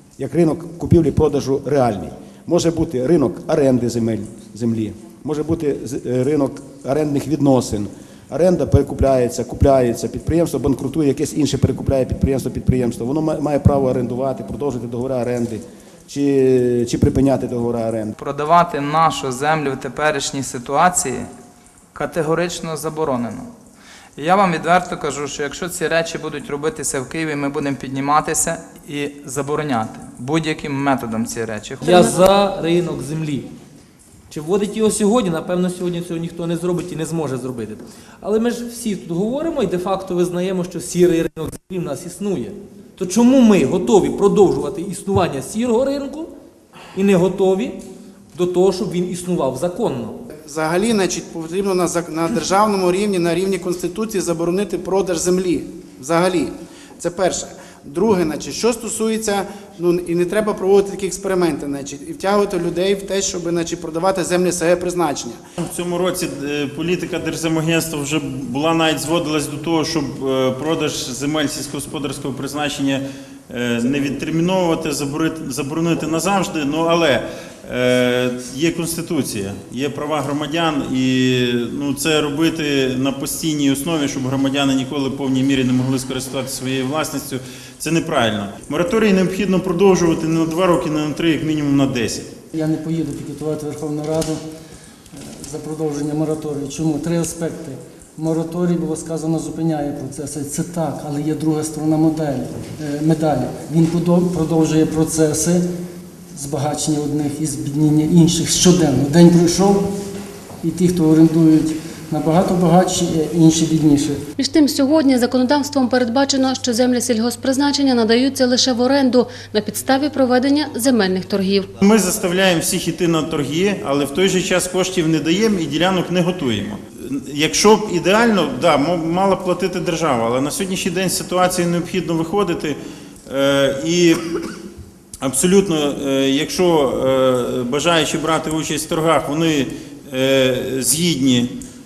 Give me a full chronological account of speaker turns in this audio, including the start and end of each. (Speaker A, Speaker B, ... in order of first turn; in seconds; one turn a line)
Speaker A: 0.2-18.1
Speaker B: 18.2-21.3
Speaker B: 21.9-23.5
Speaker B: 24.2-32.2
Speaker C: 31.8-33.5
Speaker C: 34.3-46.3
Speaker C: 46.9-47.8
Speaker C: 48.3-50.2
Speaker D: 50.4-65.4
Speaker E: 65.6-92.3
Speaker F: 92.5-94.4
Speaker F: 95.4-105.6
Speaker F: 106.3-109.9
Speaker F: 110.6-114.2
Speaker G: 114.4-121.7
Speaker E: 121.8-134.2
Speaker E: 135.2-141.6